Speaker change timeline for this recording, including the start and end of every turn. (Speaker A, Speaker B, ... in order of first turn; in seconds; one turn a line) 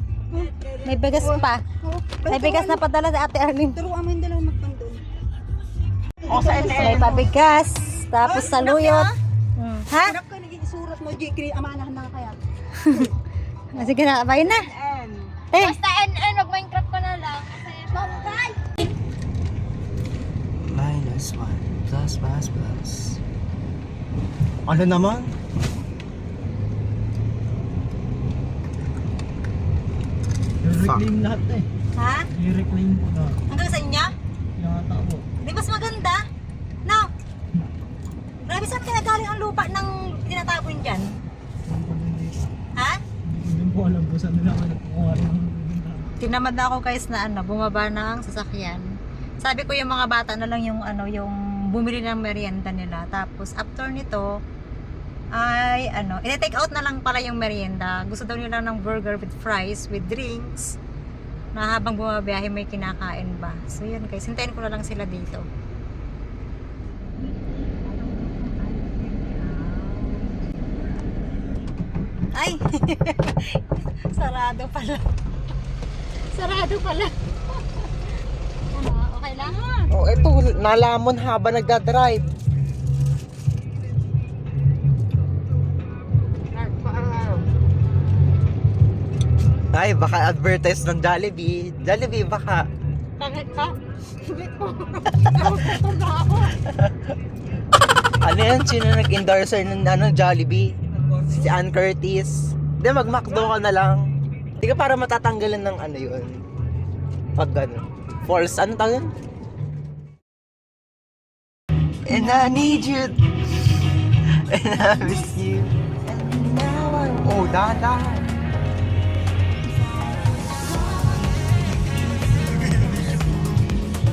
Speaker A: 0.3-2.8
Speaker B: 0.8-1.6
Speaker B: 2.3-3.8
Speaker A: 3.7-5.0
Speaker A: 6.3-7.2
Speaker C: 6.3-7.3
Speaker B: 6.4-10.2
Speaker A: 8.2-9.1
Speaker A: 10.0-12.4
Speaker B: 12.8-13.1
Speaker B: 13.7-14.7
Speaker C: 14.6-15.2
Speaker B: 15.5-15.8
Speaker D: 15.6-18.4
Speaker A: 17.9-18.6
Speaker C: 20.6-23.2
Speaker C: 24.7-25.3
Speaker E: 30.6-31.7
Speaker C: 30.8-31.1
Speaker B: 32.0-32.3
Speaker E: 32.3-33.4
Speaker B: 33.5-34.1
Speaker E: 34.6-35.2
Speaker B: 35.4-36.2
Speaker B: 38.5-41.1
Speaker E: 41.6-42.5
Speaker B: 42.8-43.0
Speaker E: 43.2-46.3
Speaker B: 46.2-48.9
Speaker B: 49.4-54.3
Speaker B: 55.4-60.8
Speaker B: 61.5-65.5
Speaker B: 67.9-70.4
Speaker B: 72.3-73.6
Speaker B: 74.1-75.0
Speaker B: 76.3-77.1
Speaker D: 78.8-79.9
Speaker B: 78.8-79.6
Speaker C: 79.9-82.3
Speaker C: 86.8-87.3
Speaker C: 89.7-92.7
Speaker B: 93.2-93.7
Speaker B: 94.4-96.3
Speaker C: 96.5-97.0
Speaker C: 98.2-104.0
Speaker C: 104.6-106.4
Speaker C: 107.3-109.1
Speaker C: 112.0-113.2
Speaker C: 114.3-118.3